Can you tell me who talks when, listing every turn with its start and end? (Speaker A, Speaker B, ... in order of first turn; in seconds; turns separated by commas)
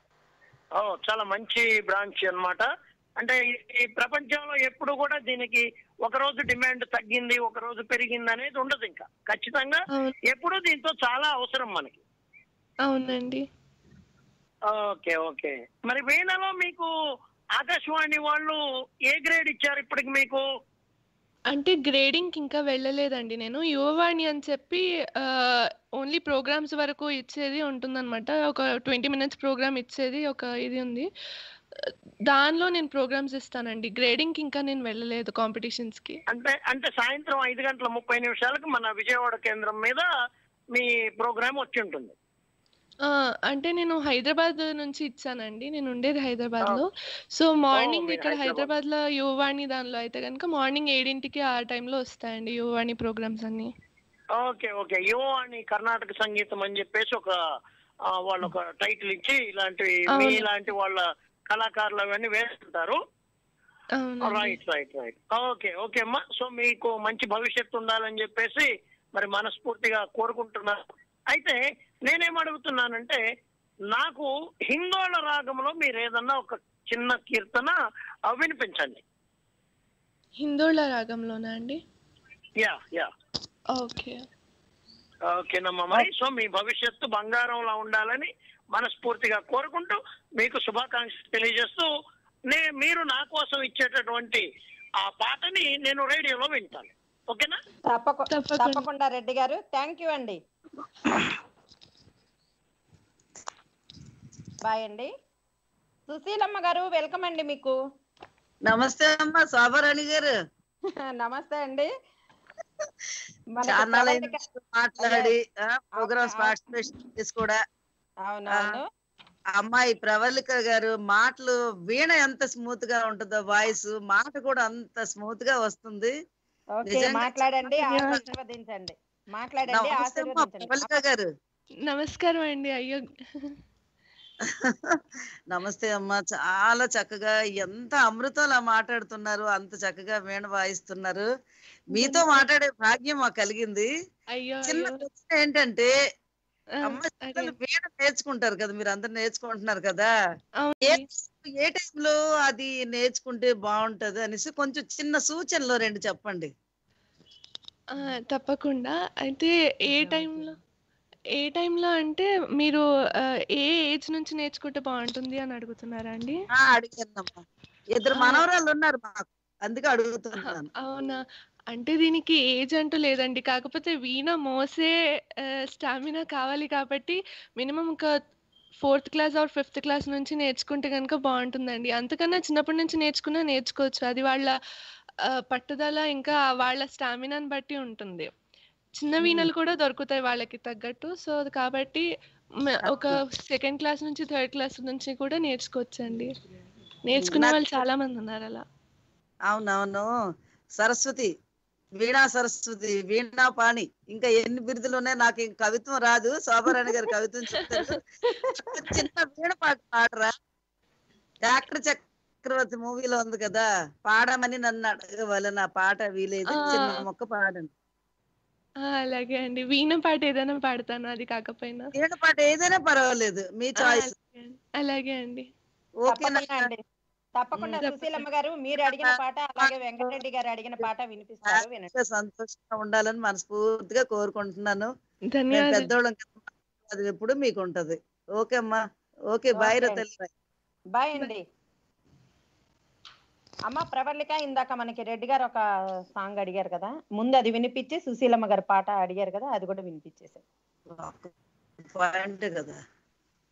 Speaker A: 0.8-12.0, Speaker B: 12.9-13.4, Speaker A: 14.7-16.9, Speaker A: 17.6-20.4, Speaker B: 21.5-31.1, Speaker B: 31.8-36.2, Speaker A: 36.3-40.1, Speaker A: 40.8-42.1, Speaker B: 43.0-53.7, Speaker A: 47.8-48.7, Speaker A: 54.4-57.3, Speaker A: 58.1-63.0, Speaker B: 60.1-60.5, Speaker B: 64.0-64.6, Speaker A: 64.2-70.8, Speaker A: 71.3-73.2, Speaker A: 73.9-77.8, Speaker A: 78.3-79.0, Speaker B: 80.4-81.8, Speaker A: 82.6-83.1, Speaker B: 83.8-84.2, Speaker A: 85.3-91.9, Speaker A: 92.5-94.5, Speaker A: 95.0-97.6, Speaker C: 97.9-100.4, Speaker B: 98.3-98.8, Speaker C: 104.6-105.1, Speaker C: 106.1-107.7, Speaker D: 108.7-110.3, Speaker C: 111.1-111.9, Speaker C: 113.6-114.4, Speaker D: 113.7-117.6, Speaker C: 115.0-115.3, Speaker C: 116.0-116.6, Speaker C: 118.3-118.8, Speaker D: 119.5-126.1, Speaker C: 126.8-130.9, Speaker D: 126.9-128.2, Speaker D: 129.7-131.2, Speaker B: 131.9-133.6, Speaker D: 134.4-135.0, Speaker D: 135.5-141.3, Speaker D: 141.9-143.9, Speaker B: 141.9-142.5, Speaker B: 144.3-145.0, Speaker D: 144.7-145.9, Speaker B: 146.8-147.5, Speaker D: 146.8-150.1, Speaker B: 150.6-151.0, Speaker D: 150.8-156.5, Speaker B: 157.9-160.6, Speaker B: 161.4-162.8, Speaker B: 163.6-166.4, Speaker D: 166.6-167.4, Speaker D: 168.0-170.7, Speaker B: 168.1-168.5, Speaker B: 170.4-171.2, Speaker B: 171.7-174.9, Speaker B: 175.7-178.1, Speaker B: 178.8-184.6, Speaker B: 185.3-188.3, Speaker B: 189.0-192.1, Speaker B: 192.6-196.3, Speaker D: 192.9-193.2, Speaker B: 197.1-198.6, Speaker D: 197.2-197.6, Speaker D: 199.5-200.1, Speaker D: 200.8-201.3, Speaker D: 202.0-210.3, Speaker D: 211.4-217.7, Speaker B: 216.5-217.0, Speaker B: 218.8-221.9, Speaker D: 222.0-224.1, Speaker B: 223.8-225.5, Speaker D: 226.1-226.7, Speaker C: 226.1-226.8, Speaker C: 227.4-231.9, Speaker B: 227.8-228.2, Speaker D: 228.9-229.1, Speaker D: 231.5-234.9, Speaker B: 235.3-235.9, Speaker D: 235.5-240.3, Speaker C: 239.6-240.0, Speaker C: 240.9-241.4, Speaker C: 243.7-245.6, Speaker C: 246.2-250.4, Speaker D: 250.9-251.3, Speaker D: 251.9-252.8